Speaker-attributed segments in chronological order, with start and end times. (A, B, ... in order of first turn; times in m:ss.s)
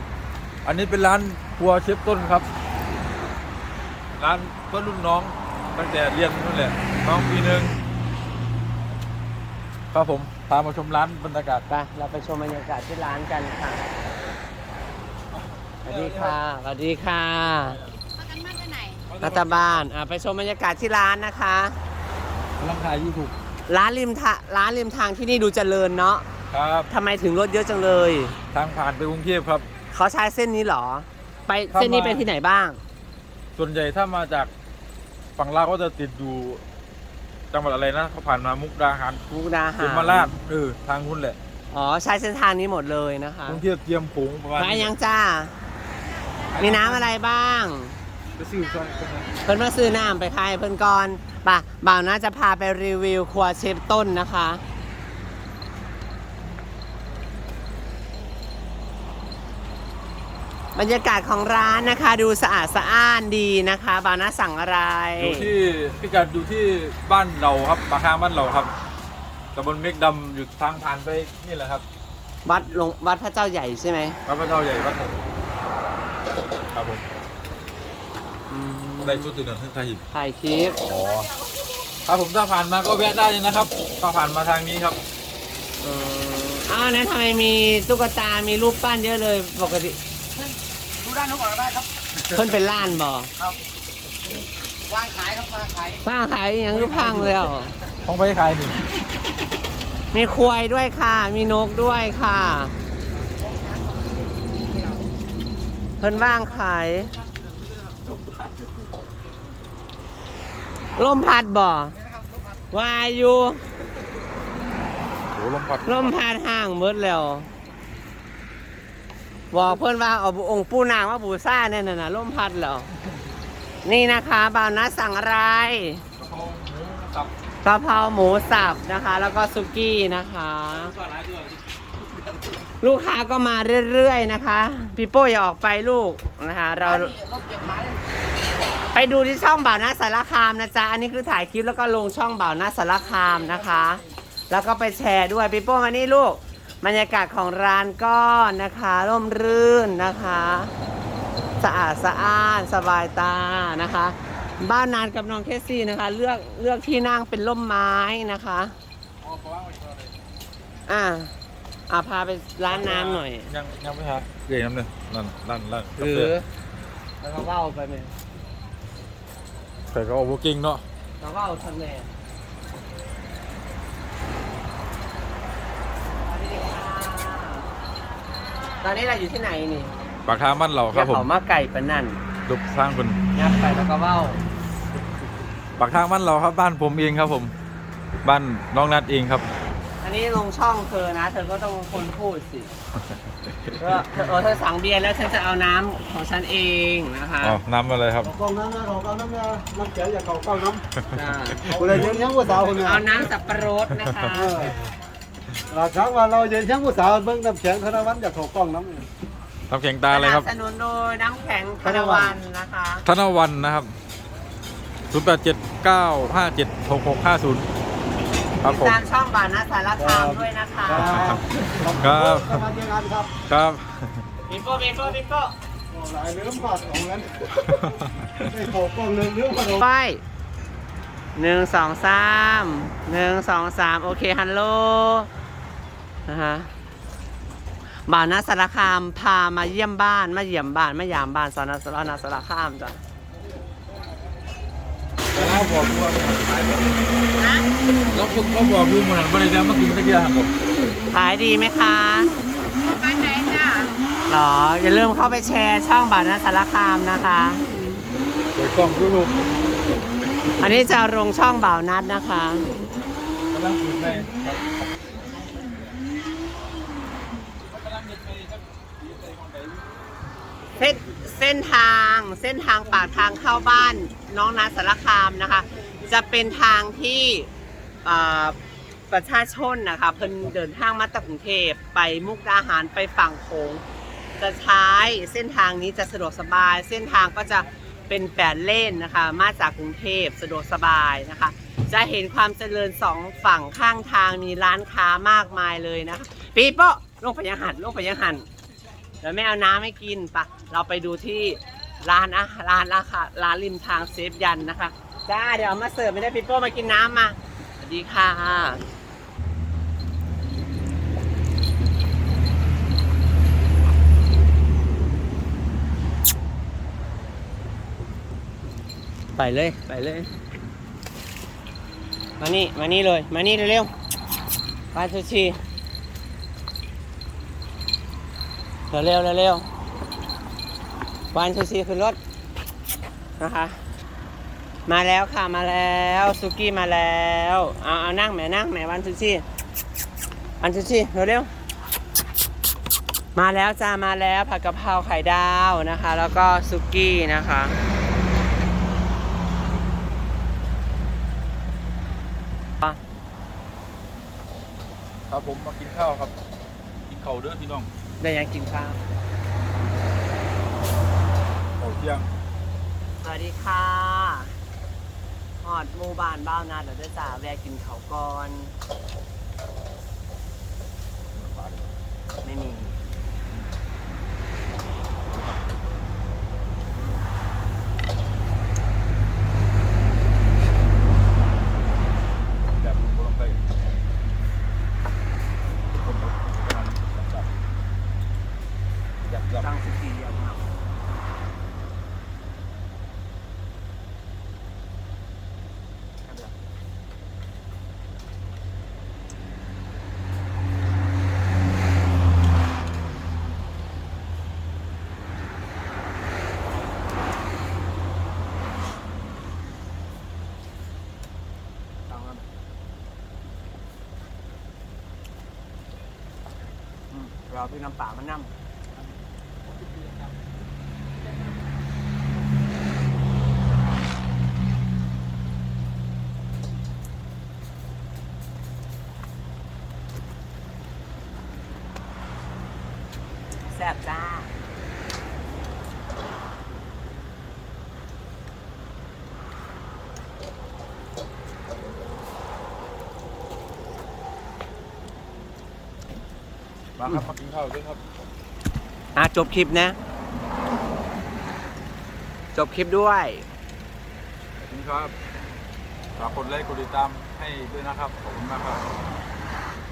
0:00.6-0:02.5 A
0:04.2-0:07.8 A
0:09.9-0:11.6 A
0:11.7-0:13.8 B
0:15.8-0:16.4 A
0:15.8-0:17.8 B
0:17.6-0:18.0 A
0:18.4-0:18.9 C
0:19.1-0:19.9 A
0:19.2-0:21.8 B
0:22.6-0:23.3 A
0:23.7-0:26.2 B
0:26.5-0:26.9 A
0:26.9-0:28.4 B
0:28.5-0:29.6 A
0:29.9-0:32.8 B
0:31.7-0:32.3 A
0:33.6-0:34.5 A
0:35.4-0:36.6 A
0:37.5-0:39.2 A
0:39.3-0:40.3 B
0:39.8-0:41.4 A
0:41.7-0:43.6 B
0:43.4-0:44.9 A
0:44.6-0:45.5 B
0:46.5-0:47.0 A
0:46.6-0:48.0 B
0:48.4-0:49.3 A
0:49.4-0:54.6 B
1:00.7-1:05.5 B
1:05.2-1:08.7 A
1:09.5-1:11.8 A
1:12.4-1:14.2 B
1:14.2-1:15.2 A
1:16.7-1:17.0 A
1:18.5-1:19.3 B
1:19.0-1:20.0 A
1:20.1-1:20.8 B
1:20.8-1:21.3 A
1:22.0-1:25.0 A
1:25.8-1:30.0 B
1:31.0-1:31.8 C
1:32.3-1:33.3 B
1:34.9-1:35.9 C
1:36.0-1:37.7 B
1:36.8-1:37.2 A
1:38.0-1:38.8 A
1:40.1-1:42.7 B
1:46.0-1:47.1 B
1:51.0-1:52.0 B
1:52.7-1:53.6 B
1:55.3-1:56.2 A
1:55.8-1:57.5 B
1:59.5-2:02.9 B
2:03.8-2:06.0 B
2:06.2-2:07.3 A
2:07.6-2:11.0 B
2:11.0-2:11.5 A
2:12.8-2:17.2 B
2:17.3-2:17.6 C
2:18.9-2:30.7 B
2:31.6-2:38.7 B
2:39.2-2:40.1 A
2:40.9-2:41.3 B
2:41.9-2:43.5 B
2:42.7-2:46.3 A
2:46.0-2:46.5 B
2:47.2-2:48.1 B
2:49.9-2:50.8 A
2:51.2-2:52.1 B
2:56.2-2:57.6 B
2:58.8-3:00.0 B
3:00.2-3:01.3 A
3:00.9-3:02.2 B
3:02.5-3:03.2 A
3:03.3-3:04.4 B
3:05.8-3:07.5 A
3:08.2-3:09.4 A
3:10.0-3:12.7 B
3:13.8-3:17.6 B
3:17.4-3:18.3 A
3:18.2-3:20.8 D
3:21.1-3:21.8 B
3:21.2-3:22.4 A
3:21.6-3:23.0 D
3:22.7-3:24.7 B
3:24.3-3:24.8 D
3:25.7-3:29.1 D
3:29.7-3:30.5 A
3:30.1-3:33.0 B
3:31.8-3:32.4 D
3:33.0-3:33.9 A
3:35.1-3:37.6 A
3:38.6-3:39.0 A
3:38.6-3:41.2 B
3:40.0-3:43.3 D
3:41.0-3:42.7 A
3:43.5-3:44.2 A
3:44.5-3:45.5 B
3:45.9-3:49.8 D
3:47.9-3:48.5 A
3:49.7-3:50.2 B
3:51.4-3:55.3 B
3:56.2-3:56.7 B
3:58.0-4:03.0 B
4:05.3-4:07.2 A
4:07.4-4:07.7 B
4:08.1-4:10.5 A
4:11.1-4:12.3 B
4:12.8-4:17.6 B
4:18.5-4:19.4 A
4:20.6-4:22.7 B
4:23.5-4:24.9 A
4:27.7-4:29.8 A
4:30.8-4:37.5 B
4:38.0-4:38.6 B
4:39.1-4:43.8 B
4:44.4-4:58.5 B
4:59.2-5:08.8 B
5:19.4-5:20.3 B
5:22.4-5:23.9 B
5:24.9-5:25.6 B
5:28.9-5:29.7 B
5:31.3-5:32.2 B
5:33.4-5:33.8 B
5:34.9-5:39.4 B
5:40.6-5:41.5 B
5:43.3-5:47.8 B
5:55.3-5:56.3 A
5:57.1-5:57.9 A
5:58.2-5:59.0 B
6:01.8-6:02.3 A
6:03.2-6:04.5 B
6:05.6-6:08.7 B
6:11.3-6:11.9 A
6:12.4-6:13.0 B
6:15.3-6:15.7 A
6:16.9-6:17.2 B
6:22.8-6:23.6 A
6:26.0-6:27.5 A
6:29.3-6:29.7 A
6:29.5-6:30.7 B
6:36.3-6:36.5 B
6:52.1-6:52.4 B
6:57.1-6:58.5 B
7:13.7-7:14.5 B
7:27.0-7:28.0 A
7:29.2-7:30.0 B
7:32.5-7:33.4 B
7:34.6-7:35.1 A
7:36.2-7:38.8 A